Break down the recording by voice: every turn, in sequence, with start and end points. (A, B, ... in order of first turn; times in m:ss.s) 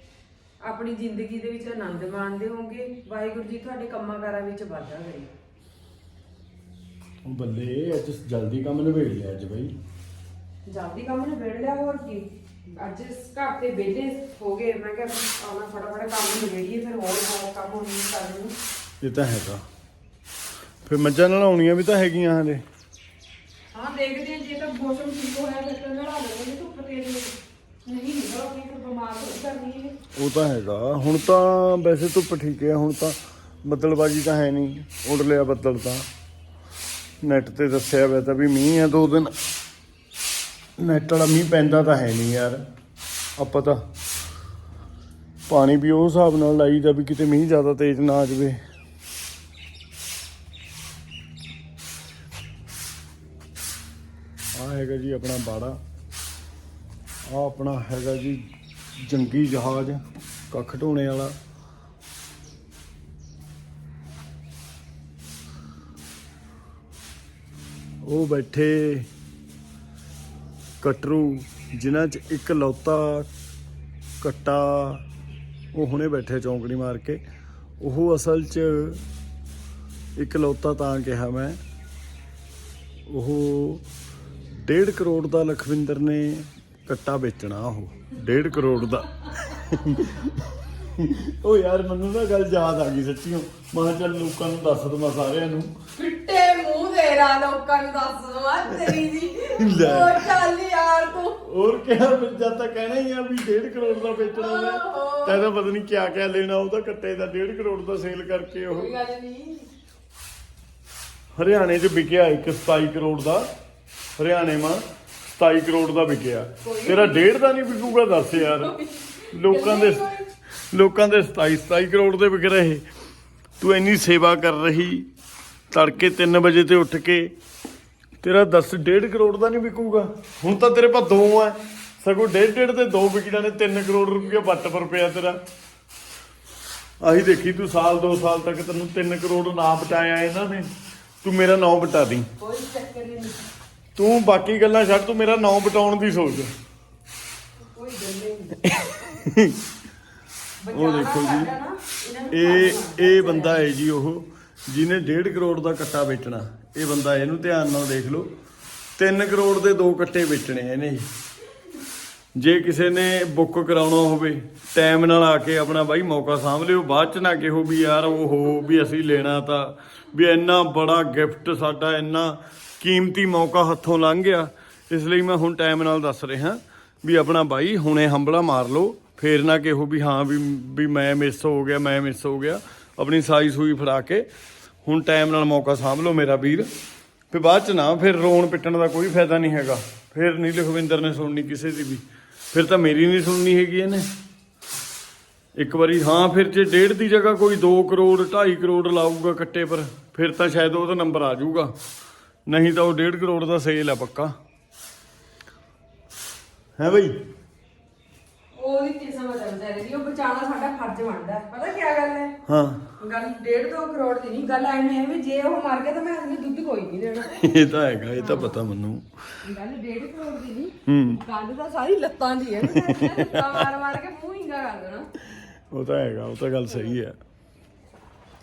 0:00.6-0:05.3 A
0:07.2-0:09.7 B
0:10.7-0:18.5 A
0:19.0-0:19.6 B
0:20.8-0:22.6 B
0:23.7-0:27.3 A
0:27.8-0:30.0 A
0:30.1-0:36.0 B
0:37.2-0:39.3 B
0:40.8-0:42.6 B
0:43.4-0:43.8 B
0:45.5-0:48.6 B
0:54.5-0:55.8 B
0:57.3-0:58.4 B
0:59.0-1:01.4 B
1:08.0-1:09.1 B
1:10.8-1:13.3 B
1:14.2-1:15.0 B
1:15.7-1:17.2 B
1:17.8-1:19.0 B
1:20.2-1:21.6 B
1:23.1-1:23.8 B
1:24.5-1:35.7 B
1:36.0-1:41.4 A
1:39.6-1:40.4 B
1:41.4-1:48.9 B
1:44.3-1:45.4 A
1:48.7-1:49.7 A
1:51.3-1:53.5 B
1:54.2-1:54.8 B
1:55.3-1:58.7 B
1:56.6-1:57.3 A
1:58.4-2:00.3 A
1:59.3-2:00.1 B
2:00.7-2:02.8 B
2:03.6-2:05.1 B
2:05.7-2:07.3 B
2:08.2-2:15.4 B
2:17.0-2:20.7 B
2:21.2-2:22.3 B
2:22.4-2:23.5 A
2:24.0-2:26.5 B
2:27.7-2:28.6 A
2:28.6-2:29.6 B
2:30.6-2:33.6 A
2:30.7-2:31.5 B
2:32.3-2:38.3 B
2:39.0-2:41.1 B
2:42.4-3:04.3 B
3:04.8-3:06.7 B
3:07.3-3:14.1 B
3:15.5-3:21.7 B
3:22.5-3:24.3 B
3:26.8-3:27.2 B
3:28.5-3:32.4 A
3:32.4-3:32.9 B
3:33.0-3:37.4 A
3:37.3-3:39.1 B
3:38.2-3:38.6 A
3:39.4-3:45.1 A
3:40.9-3:41.2 B
3:42.7-3:43.6 B
3:45.7-3:47.2 B